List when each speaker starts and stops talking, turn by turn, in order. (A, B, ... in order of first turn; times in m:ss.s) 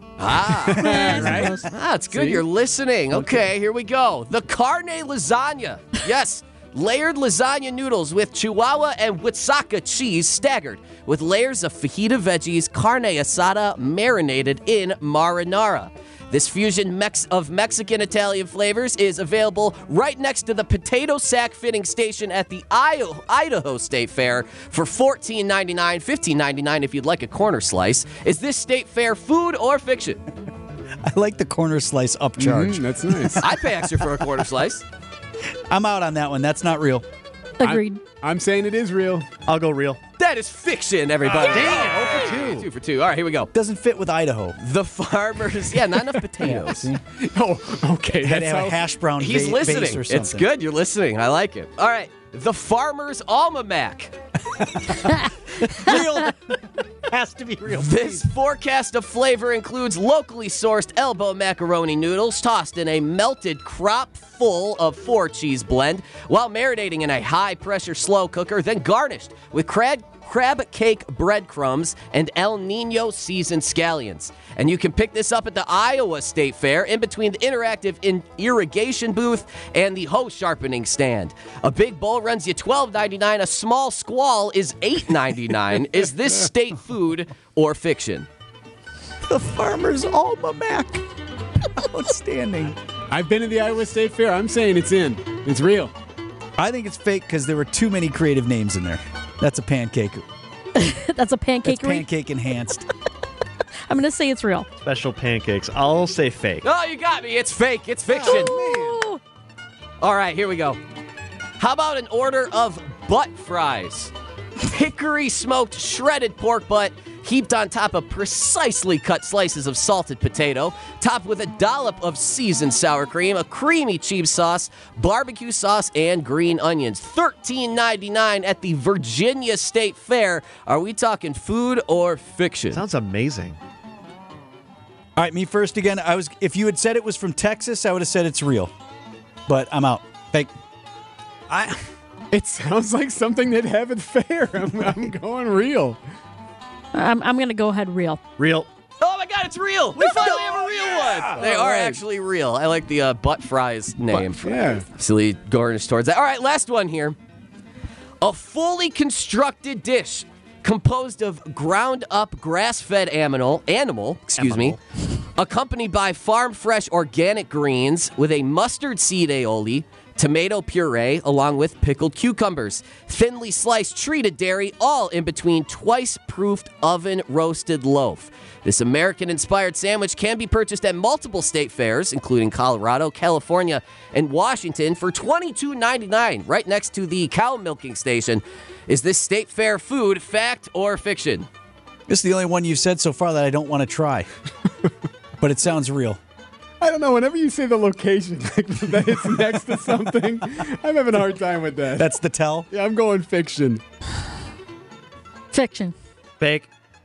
0:00.2-0:30.2 A
0:00.5-0:00.7 B
0:00.8-0:01.6 C
0:00.8-0:01.6 D
0:02.1-0:02.4 C
0:31.0-0:33.8 B
0:32.4-0:33.4 C
0:33.4-0:34.8 A
0:35.7-0:37.0 B
0:37.6-0:38.0 D
0:37.6-0:39.3 C
0:39.4-0:40.0 E
0:40.2-0:43.5 A
0:41.3-0:42.3 B
0:41.5-0:42.6 E
0:43.5-0:44.6 B
0:44.6-0:46.9 A
0:46.4-0:47.0 B
0:47.1-0:48.8 C
0:48.2-0:50.4 B
0:49.2-0:54.1 A
0:54.6-0:56.5 B
0:57.1-0:58.2 B
0:57.7-1:28.3 A
1:29.2-1:31.0 B
1:31.7-1:32.8 B
1:33.1-1:35.9 C
1:36.6-1:40.2 B
1:40.8-1:42.0 D
1:41.6-1:42.9 B
1:43.9-1:44.7 D
1:44.8-1:46.6 E
1:46.6-1:48.6 A
1:48.2-1:49.2 D
1:50.0-1:50.8 A
1:51.6-1:54.1 A
1:54.6-2:12.8 A
2:12.7-2:13.6 E
2:15.2-2:18.7 B
2:19.5-2:20.5 B
2:22.3-2:26.0 C
2:26.9-2:28.2 D
2:28.4-2:28.6 E
2:29.0-2:37.2 A
2:30.0-2:31.8 B
2:34.1-2:34.8 C
2:38.2-2:44.8 A
2:45.4-3:11.5 A
3:12.1-3:14.3 B
3:15.4-3:16.2 B
3:16.8-3:22.1 C
3:22.0-3:22.7 B
3:22.7-3:23.8 C
3:25.5-3:25.9 D
3:26.4-3:26.7 E